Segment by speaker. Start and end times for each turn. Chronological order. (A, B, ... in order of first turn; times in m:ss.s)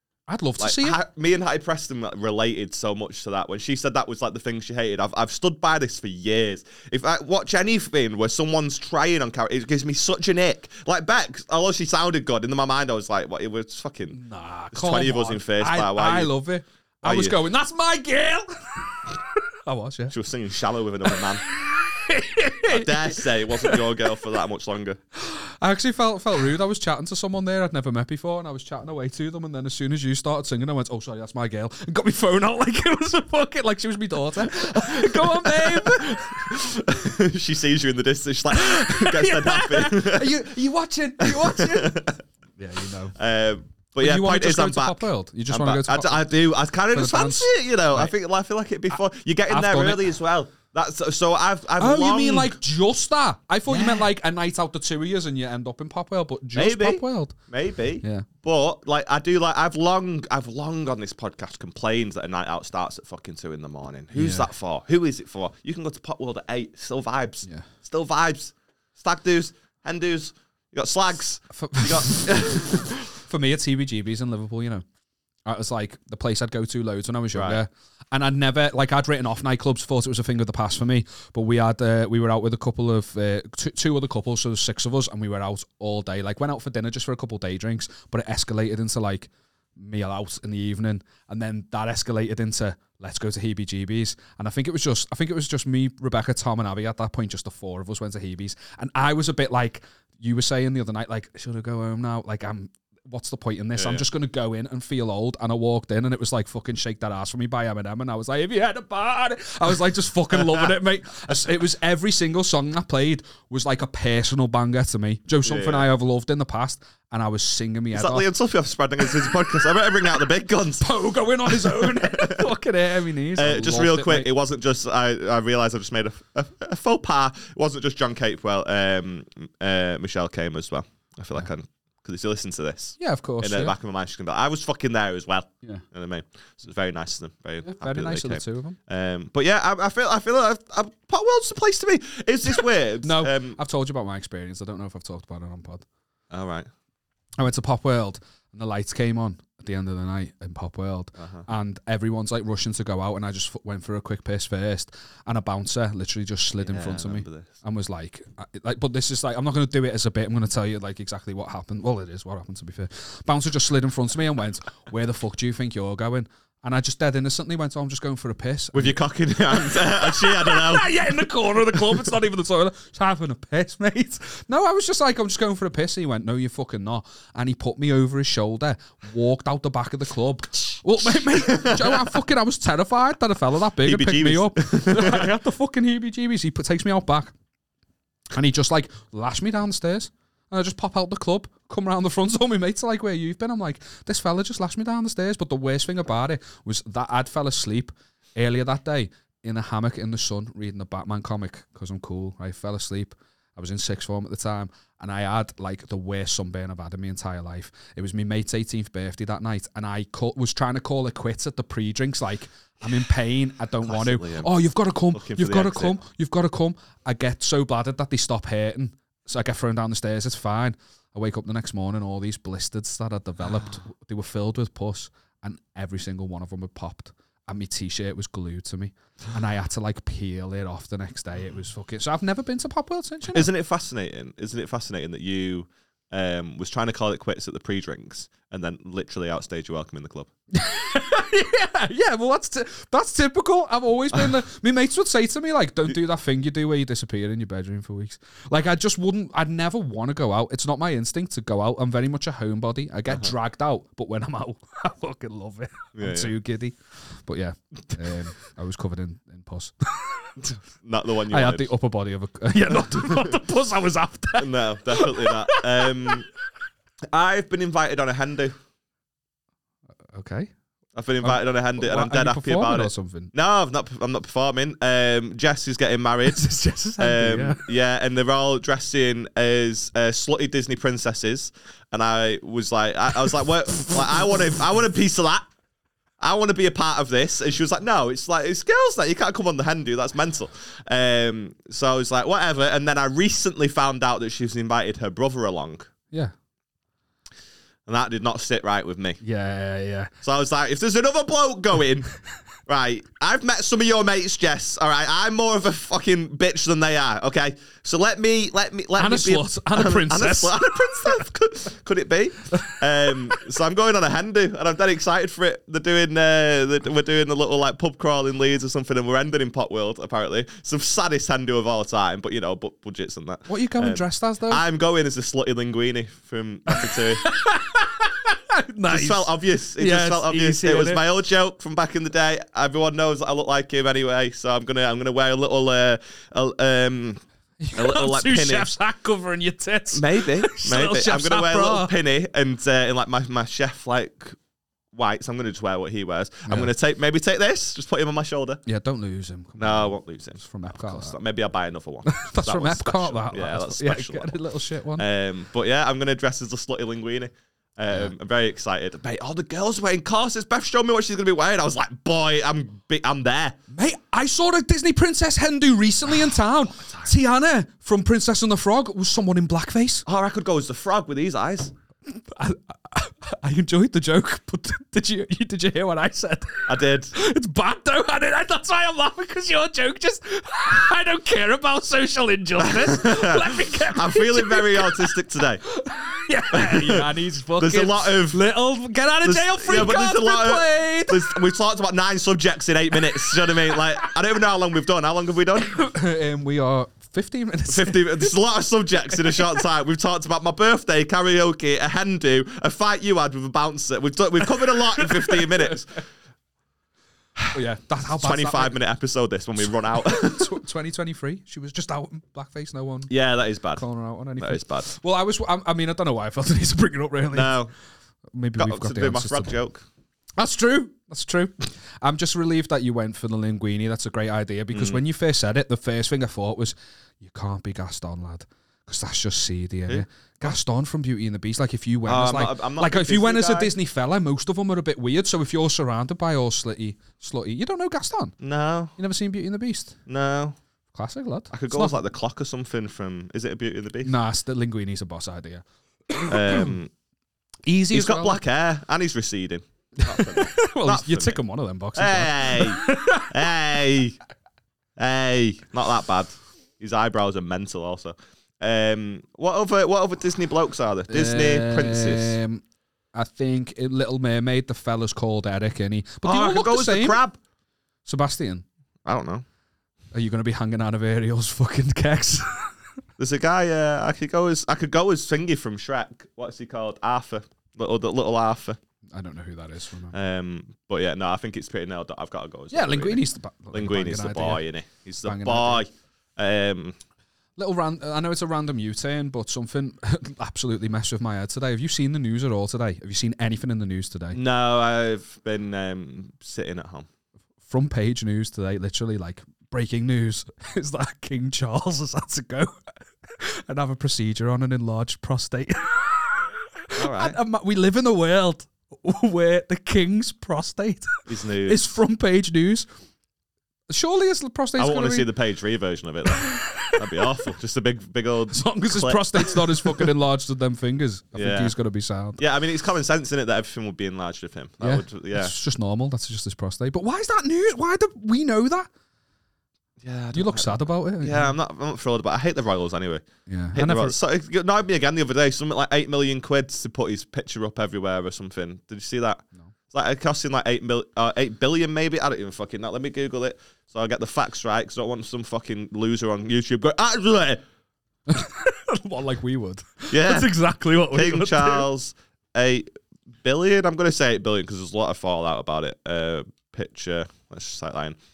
0:00.3-0:01.0 A
0:00.6-0:14.2 B
0:14.1-0:20.1 A
0:14.7-0:16.3 B
0:17.0-0:17.4 B
0:20.1-0:21.4 B
0:21.0-0:24.0 A
0:22.6-0:25.0 B
0:25.2-0:36.5 A
0:35.2-0:40.4 B
0:38.5-0:43.1 A
0:41.2-0:42.2 B
0:43.1-0:52.6 B
0:44.0-0:46.3 A
0:46.9-0:48.1 A
0:49.5-0:50.0 A
0:51.8-0:57.4 A
0:53.7-0:54.1 B
0:56.5-1:13.2 B
1:04.1-1:04.5 A
1:11.5-1:12.4 A
1:13.2-1:14.8 A
1:15.4-1:58.3 A
1:17.3-1:17.6 B
1:43.8-1:44.0 B
1:55.4-1:55.9 B
1:57.9-2:00.9 B
1:59.0-1:59.4 A
2:00.8-2:04.3 A
2:01.4-2:02.4 B
2:03.3-2:23.6 B
2:13.0-2:13.7 A
2:17.6-2:18.8 A
2:23.0-2:25.8 A
2:26.3-2:26.7 B
2:27.4-2:49.0 A
2:31.2-2:31.5 B
2:36.6-2:37.5 B
2:48.7-2:50.9 B
2:49.5-3:07.3 A
3:01.3-3:02.1 B
3:03.8-3:05.3 B
3:08.3-3:53.5 A
3:33.8-3:34.5 B
3:35.1-3:36.0 B
3:53.3-4:00.3 B
4:00.5-4:20.3 A
4:15.9-4:16.3 B
4:20.4-4:21.7 B
4:21.3-4:26.1 A
4:24.4-4:26.3 B
4:27.1-4:28.6 B
4:30.1-4:30.5 A
4:30.9-4:36.4 B
4:31.2-4:33.3 A
4:36.3-4:37.6 A
4:37.0-4:45.5 B
4:46.2-4:55.9 B
4:57.8-4:59.2 B
4:59.2-5:00.1 A
5:00.2-5:02.1 B
5:02.6-5:27.3 B
5:09.0-5:11.2 A
5:12.5-5:13.3 A
5:23.5-5:24.6 A
5:26.7-5:31.0 A
5:28.9-5:37.2 B
5:37.6-5:41.9 A
5:37.7-5:38.7 B
5:39.9-5:44.4 B
5:44.9-5:48.6 B
5:48.6-5:51.2 A
5:49.6-5:54.4 B
5:52.1-5:55.0 A
5:55.0-6:03.6 B
6:03.7-6:10.0 A
6:06.1-6:07.1 B
6:10.0-6:11.7 B
6:12.1-6:25.1 A
6:16.7-6:17.1 B
6:22.6-6:25.6 B
6:25.7-6:31.4 A
6:26.5-6:28.4 B
6:29.2-6:35.8 B
6:33.1-6:33.8 A
6:35.6-6:38.3 A
6:37.7-6:46.0 B
6:39.1-6:39.6 A
6:45.0-6:45.7 A
6:47.5-6:48.8 A
6:48.1-6:50.6 B
6:49.6-6:53.1 A
6:53.1-6:53.8 B
6:53.8-6:57.6 A
6:54.4-6:54.9 B
6:57.3-6:57.7 B
6:58.3-6:59.6 A
6:58.6-6:59.8 B
7:00.4-7:18.4 A
7:04.7-7:05.0 B
7:09.9-7:10.5 B
7:12.0-7:13.7 B
7:18.4-7:18.9 B
7:19.0-7:20.0 A
7:20.1-7:20.6 B
7:20.9-7:22.0 A
7:21.5-7:24.1 B
7:24.0-7:26.8 A
7:26.3-7:26.9 B
7:27.6-7:28.4 A
7:27.9-7:31.4 B
7:30.0-7:33.5 A
7:31.9-7:34.2 B
7:35.0-7:42.4 B
7:41.1-7:42.6 A
7:43.1-7:47.2 A
7:46.2-7:47.4 B
7:48.0-7:48.6 A
7:49.0-7:49.4 B
7:50.1-7:52.7 A
7:53.2-7:58.8 B
7:59.1-8:00.1 A
8:00.1-8:07.0 B
8:02.7-8:04.6 A
8:05.2-8:05.8 A
8:07.6-8:14.4 A
8:14.3-8:17.1 B
8:17.6-8:32.9 A
8:26.9-8:27.4 B
8:31.3-8:32.0 B
8:33.9-8:35.3 A
8:34.8-8:40.1 B
8:36.4-8:37.2 A
8:38.5-8:42.4 A
8:41.3-8:41.7 B
8:42.4-8:45.5 B
8:44.8-8:48.9 A
8:50.0-9:07.6 B
8:50.3-8:51.5 A
8:53.5-8:54.2 A
9:08.3-9:11.9 A
9:10.1-9:10.5 B
9:11.1-9:12.9 B
9:13.4-9:18.2 B